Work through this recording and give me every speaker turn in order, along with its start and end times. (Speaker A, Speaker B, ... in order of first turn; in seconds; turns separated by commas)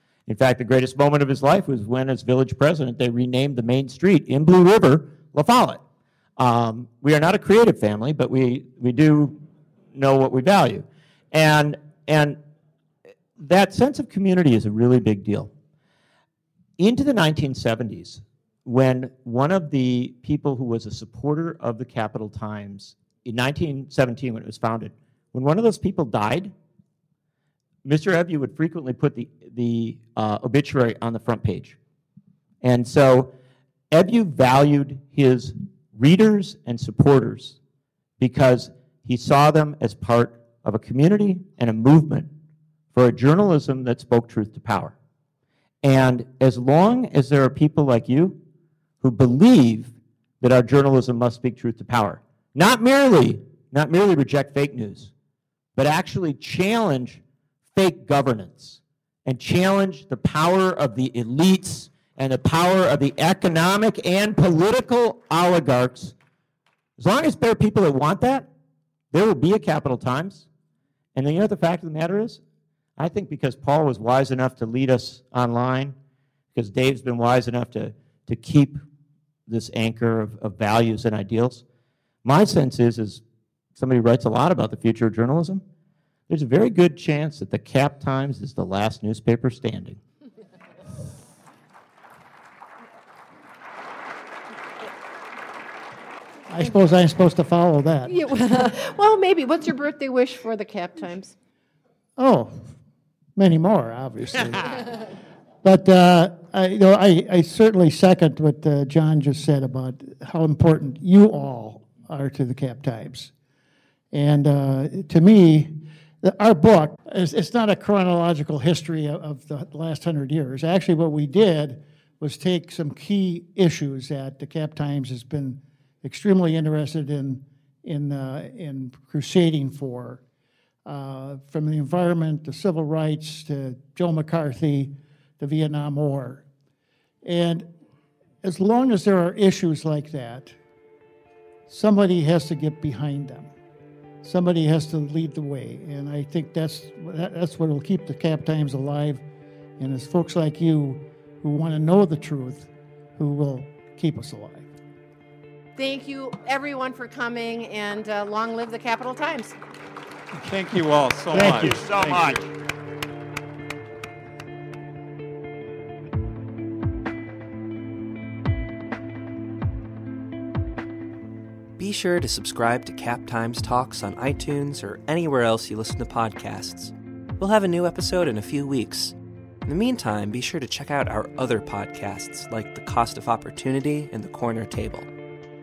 Speaker A: 0.3-5.8, Speaker A: 6.4-9.4, Speaker A: 9.9-12.4, Speaker A: 13.4-15.5, Speaker A: 16.8-26.5, Speaker A: 27.9-31.8, Speaker A: 32.6-33.3, Speaker A: 33.9-37.6, Speaker A: 38.2-42.3, Speaker A: 42.9-45.0, Speaker A: 45.8-48.4, Speaker A: 49.0-55.1, Speaker A: 55.8-57.2, Speaker A: 57.8-66.2, Speaker A: 67.0-68.5, Speaker A: 69.1-70.5, Speaker A: 71.2-72.4, Speaker A: 73.0-76.0, Speaker A: 76.5-78.8, Speaker A: 79.5-81.6, Speaker A: 82.2-83.2, Speaker A: 83.8-85.6, Speaker A: 86.3-90.0, Speaker B: 96.5-98.1, Speaker C: 98.1-101.3, Speaker B: 102.2-102.7, Speaker B: 103.4-105.0, Speaker B: 105.6-113.3, Speaker B: 114.1-130.2, Speaker B: 130.9-136.4, Speaker B: 137.2-137.7, Speaker B: 138.4-140.6, Speaker B: 141.7-143.5, Speaker B: 144.2-149.2, Speaker B: 149.8-154.7, Speaker C: 155.8-159.6, Speaker D: 160.4-162.5, Speaker A: 161.3-162.4, Speaker B: 161.3-162.0, Speaker E: 171.8-185.1